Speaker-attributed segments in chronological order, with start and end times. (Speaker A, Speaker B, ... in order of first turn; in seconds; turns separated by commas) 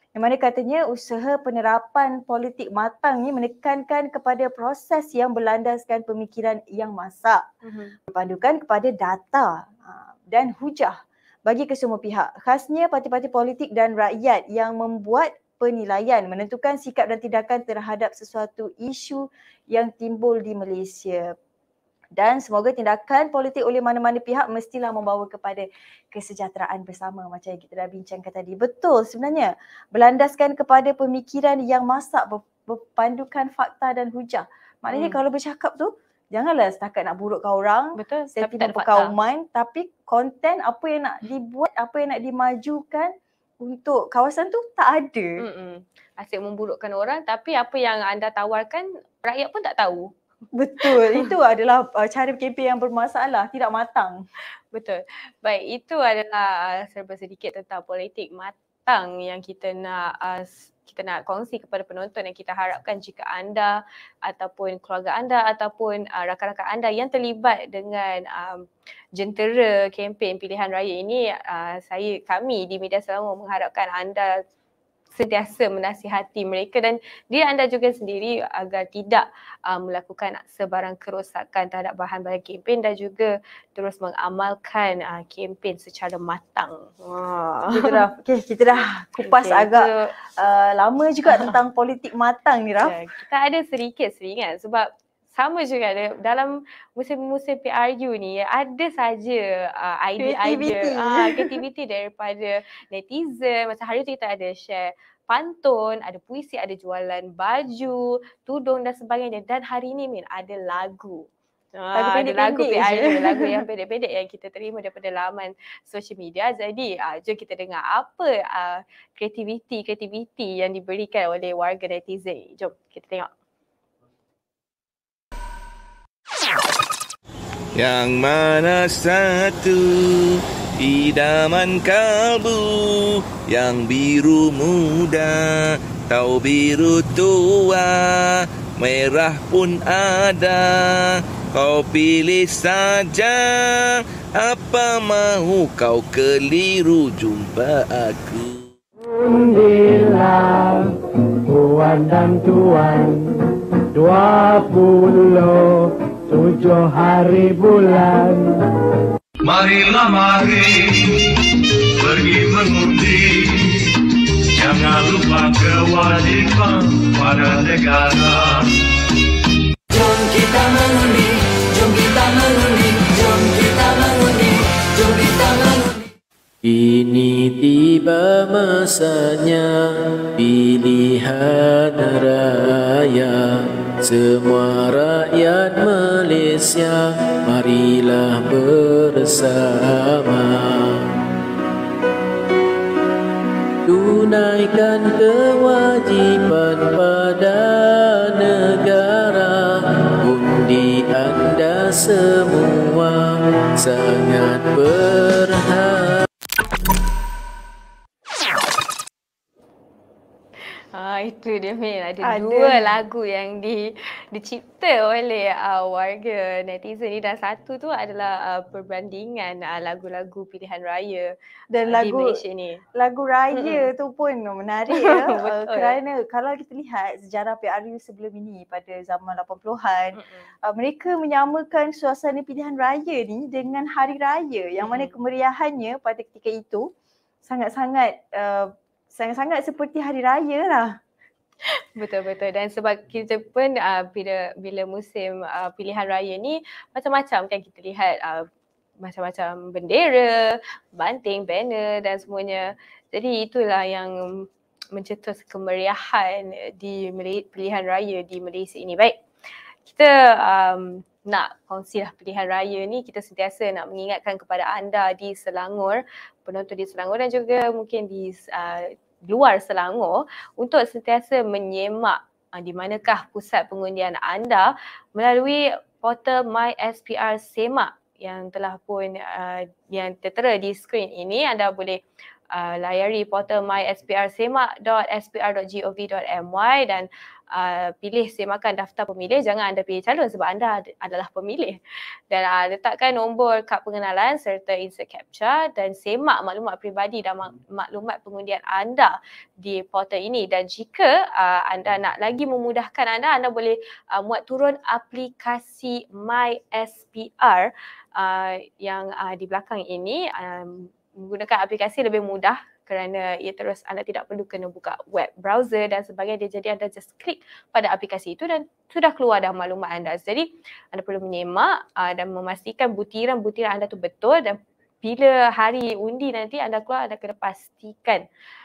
Speaker A: 0.2-7.4, Speaker B: 7.6-8.0, Speaker A: 8.1-21.4, Speaker A: 22.2-45.4, Speaker B: 34.9-35.2, Speaker B: 38.0-39.1, Speaker B: 45.4-50.1, Speaker A: 50.5-54.2, Speaker B: 50.8-51.3, Speaker B: 54.7-74.4, Speaker B: 75.2-87.9, Speaker A: 87.7-92.9, Speaker B: 89.2-90.1, Speaker B: 91.3-91.6, Speaker B: 92.8-123.3, Speaker A: 100.2-101.5, Speaker A: 112.0-113.6, Speaker C: 127.8-148.6, Speaker D: 149.0-150.9, Speaker D: 151.5-153.3, Speaker D: 153.9-158.5, Speaker E: 159.4-161.2, Speaker E: 162.0-163.9, Speaker E: 164.6-168.6, Speaker F: 169.9-176.1, Speaker G: 176.6-191.1, Speaker G: 193.9-206.3, Speaker B: 210.7-221.3, Speaker A: 212.2-212.9, Speaker A: 221.7-222.4, Speaker B: 221.9-222.8, Speaker A: 222.9-236.9, Speaker B: 223.5-223.9, Speaker B: 224.9-226.0, Speaker B: 230.2-230.5, Speaker B: 234.8-235.1, Speaker A: 237.4-241.0, Speaker B: 242.0-248.5, Speaker B: 249.0-259.2, Speaker B: 259.9-282.0, Speaker B: 282.5-291.8, Speaker B: 292.3-328.2